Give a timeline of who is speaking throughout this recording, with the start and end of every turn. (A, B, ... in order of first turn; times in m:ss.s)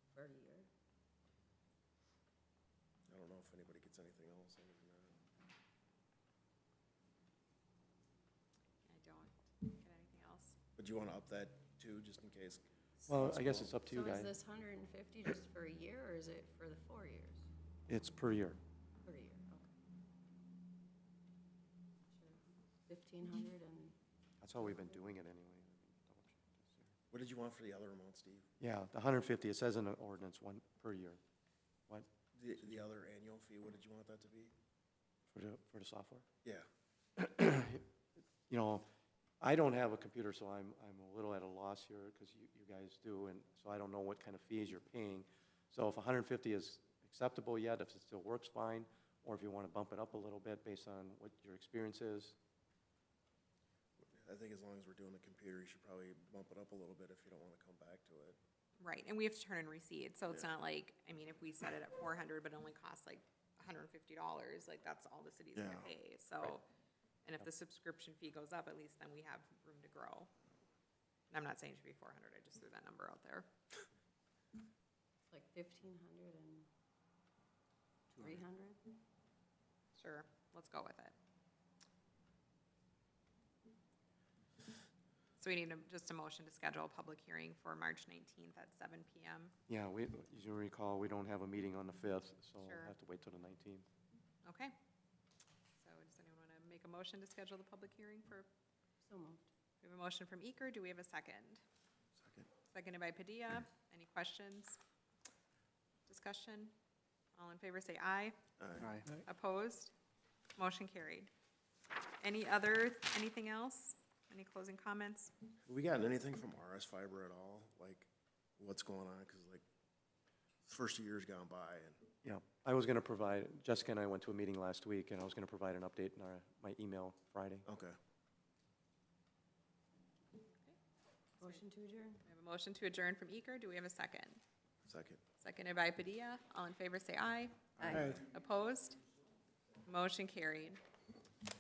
0:00.1-0:00.7 A
0:03.1-0:05.2 B
0:08.9-0:10.6 C
0:10.8-0:13.8 B
0:13.1-0:14.4 D
0:13.8-0:17.5 A
0:17.9-0:18.6 D
0:19.0-0:19.7 A
0:22.1-0:24.0 A
0:24.4-0:26.9 D
0:27.1-0:28.5 B
0:28.6-0:31.2 D
0:32.4-0:34.5 B
0:35.3-0:36.2 D
0:37.2-0:37.8 D
0:38.5-0:38.8 D
0:39.4-0:52.4 D
0:54.0-0:58.4 B
0:58.8-1:06.7 C
1:00.3-1:00.5 B
1:05.6-1:05.9 B
1:07.2-1:10.3 C
1:11.3-1:13.5 C
1:15.3-1:16.7 A
1:18.1-1:18.9 A
1:20.0-1:21.2 C
1:25.4-1:29.5 C
1:29.7-1:33.9 D
1:32.6-1:32.9 C
1:34.4-1:34.8 C
1:35.8-1:38.5 C
1:39.0-1:39.5 A
1:39.8-1:41.6 C
1:42.2-1:42.5 B
1:42.7-1:44.8 C
1:46.1-1:46.7 C
1:47.4-1:48.4 C
1:48.6-1:49.0 B
1:49.1-1:49.9 C
1:50.6-1:51.3 C
1:52.2-1:55.3 C
1:55.6-1:59.6 B
2:00.6-2:02.0 B
2:02.2-2:07.6 D
2:07.6-2:08.0 B
2:11.4-2:12.2 A
2:12.3-2:14.4 C
2:14.9-2:15.2 B
2:15.4-2:19.0 C
2:17.8-2:18.1 A
2:17.8-2:18.3 B
2:19.8-2:20.8 C